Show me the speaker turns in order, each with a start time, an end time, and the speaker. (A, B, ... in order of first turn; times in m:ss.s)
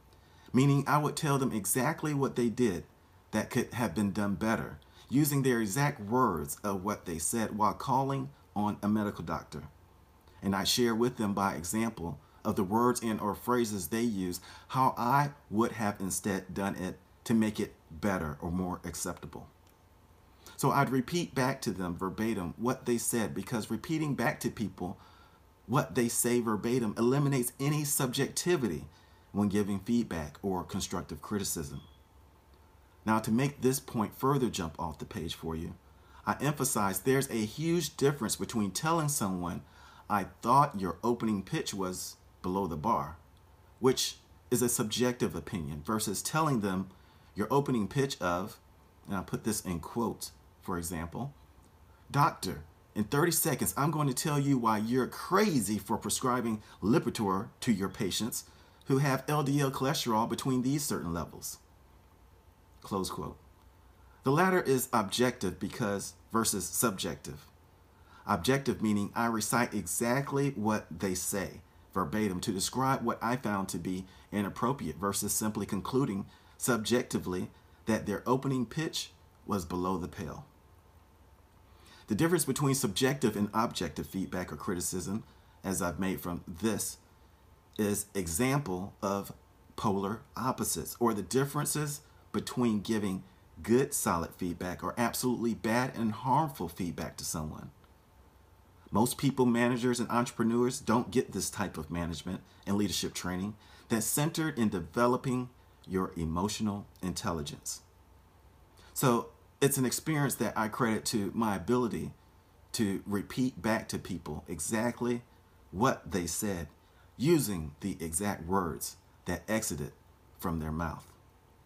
0:00.5-0:09.7 A
0:10.4-0:19.5 A
0:20.6-0:25.0 A
0:25.7-0:31.9 A
0:33.0-0:43.2 A
0:43.8-0:51.4 A
0:52.1-1:01.6 A
1:02.8-1:03.4 A
1:04.2-1:07.5 A
1:08.2-1:20.5 A
1:22.1-1:27.0 A
1:27.8-1:37.7 A
1:38.9-1:47.8 A
1:48.9-1:52.2 A
1:52.7-2:01.2 A